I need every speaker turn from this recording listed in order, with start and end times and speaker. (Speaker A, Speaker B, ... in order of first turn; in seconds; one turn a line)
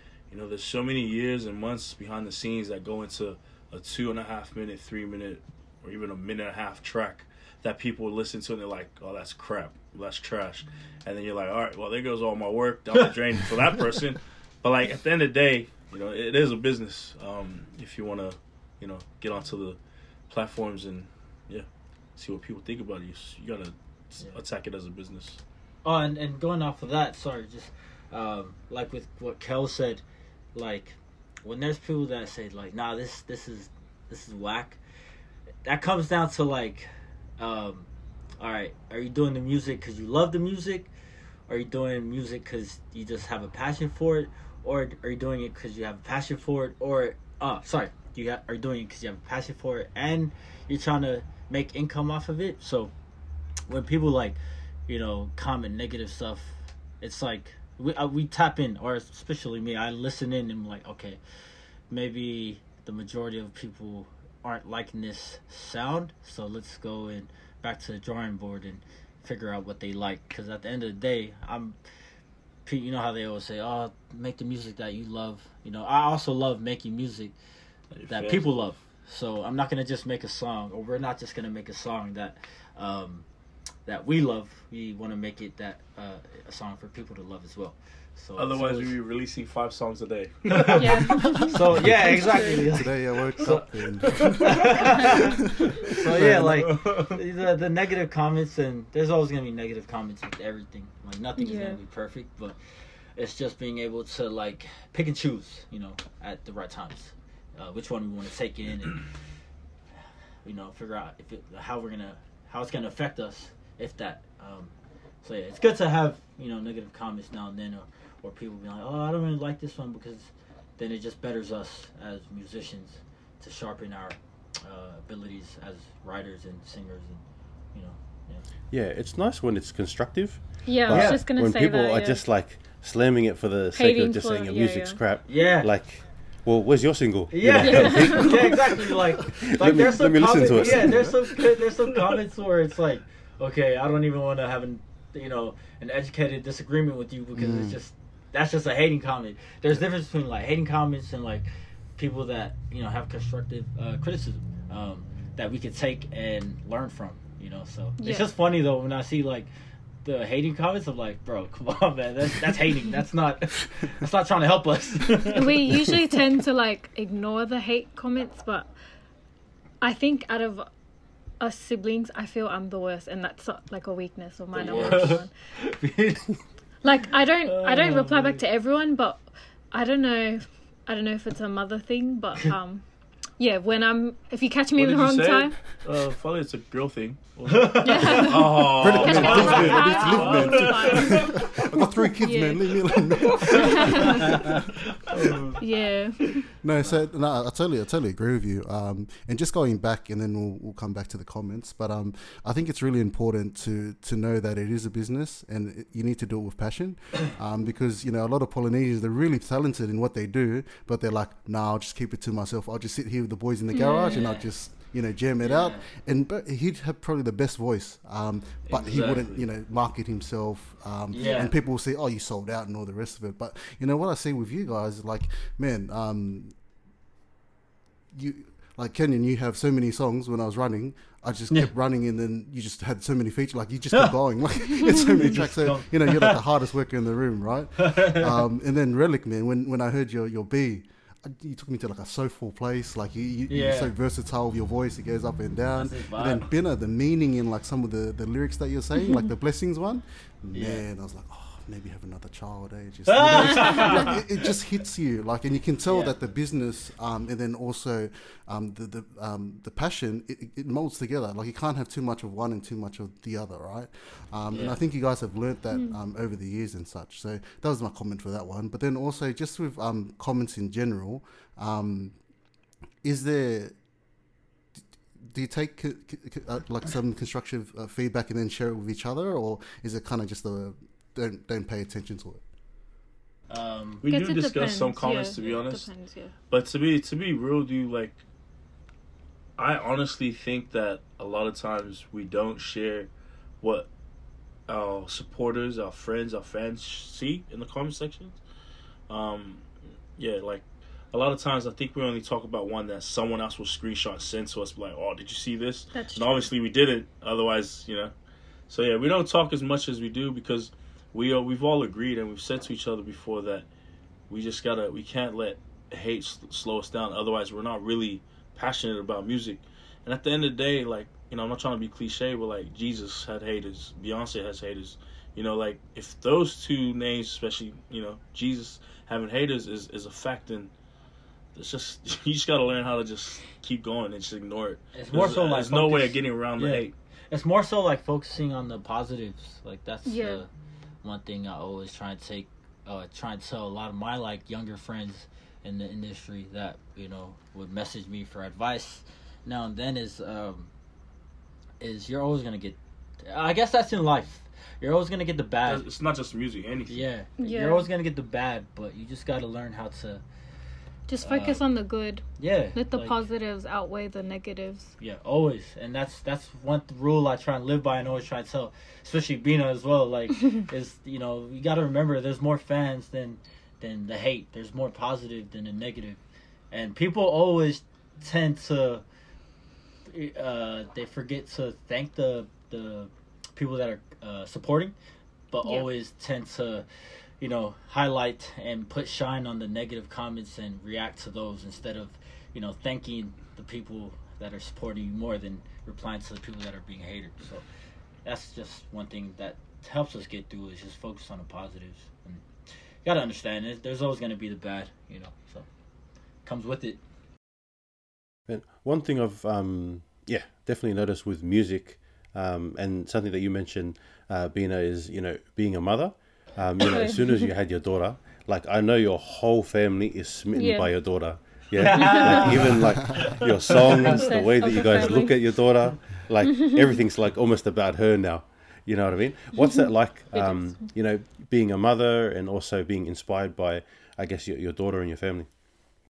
Speaker A: 0.3-19.8
Speaker A: 20.3-25.4
Speaker B: 25.8-30.0
Speaker B: 30.5-34.8
Speaker B: 35.6-37.9
Speaker B: 38.4-40.9
Speaker B: 41.5-52.9
Speaker B: 53.7-61.2
Speaker B: 61.9-71.8
Speaker B: 72.7-77.3
Speaker A: 77.9-78.5
Speaker B: 78.1-83.2
Speaker B: 83.8-88.9
Speaker A: 88.3-91.4
Speaker B: 90.5-102.6
Speaker C: 90.8-92.7
Speaker D: 91.3-96.3
Speaker A: 93.4-94.7
Speaker A: 95.8-97.2
Speaker C: 101.4-101.8
Speaker B: 103.1-109.1
Speaker B: 110.4-127.2
Speaker B: 127.7-128.4
Speaker E: 128.7-141.2
Speaker C: 130.6-132.2
Speaker B: 130.9-131.2
Speaker C: 133.8-135.0
Speaker B: 135.2-135.7
Speaker B: 137.3-159.5
Speaker C: 137.6-138.4
Speaker D: 139.6-141.2
Speaker D: 147.3-147.8
Speaker C: 158.0-158.3
Speaker B: 160.0-165.9
Speaker C: 165.3-168.7
Speaker C: 169.8-170.7
Speaker C: 171.4-175.3
Speaker B: 174.5-176.4
Speaker A: 174.6-175.2
Speaker C: 176.8-182.8
Speaker B: 177.4-178.4
Speaker C: 183.4-185.6
Speaker A: 184.7-191.6
Speaker B: 187.5-188.4
Speaker C: 187.8-191.6
Speaker D: 188.7-194.6
Speaker B: 189.1-190.1
Speaker C: 192.2-194.5
Speaker A: 193.3-193.7
Speaker A: 195.1-195.6
Speaker B: 195.1-195.4
Speaker C: 195.6-196.5
Speaker D: 196.6-226.5
Speaker C: 213.7-214.2
Speaker B: 213.8-214.5
Speaker B: 215.4-215.8
Speaker A: 218.7-219.4
Speaker B: 221.1-221.5
Speaker D: 228.1-272.2
Speaker B: 235.0-236.4
Speaker B: 237.8-238.3
Speaker B: 243.5-243.9
Speaker B: 245.8-246.4
Speaker C: 248.9-249.3
Speaker B: 250.5-250.8
Speaker B: 253.1-254.2
Speaker B: 255.9-256.1
Speaker B: 264.5-264.8
Speaker D: 273.0-273.8
Speaker D: 275.3-282.4
Speaker B: 283.5-284.0
Speaker A: 284.0-285.9
Speaker C: 284.1-286.3
Speaker A: 286.5-288.2
Speaker A: 289.6-293.1
Speaker A: 293.6-293.9
Speaker A: 294.7-298.4
Speaker A: 299.1-299.6
Speaker A: 300.2-308.1
Speaker C: 305.9-306.5
Speaker A: 308.7-313.7
Speaker A: 314.3-330.7
Speaker A: 331.5-336.9
Speaker B: 334.9-340.5
Speaker C: 340.0-340.4
Speaker B: 341.0-350.7
Speaker B: 351.8-355.8
Speaker A: 355.6-357.1
Speaker B: 356.9-360.2
Speaker C: 357.4-357.9
Speaker C: 361.1-364.9
Speaker B: 361.2-361.6
Speaker B: 362.4-363.2
Speaker B: 365.0-376.2
Speaker B: 376.7-379.0
Speaker B: 380.1-384.9
Speaker B: 385.5-386.9
Speaker C: 385.6-385.9
Speaker B: 387.4-397.6
Speaker B: 398.2-402.4
Speaker B: 403.0-405.7
Speaker B: 406.4-407.0
Speaker E: 408.5-435.5
Speaker C: 416.8-417.2
Speaker C: 420.5-420.9
Speaker B: 421.8-424.2
Speaker C: 422.1-422.5
Speaker C: 423.9-425.4
Speaker C: 430.3-430.7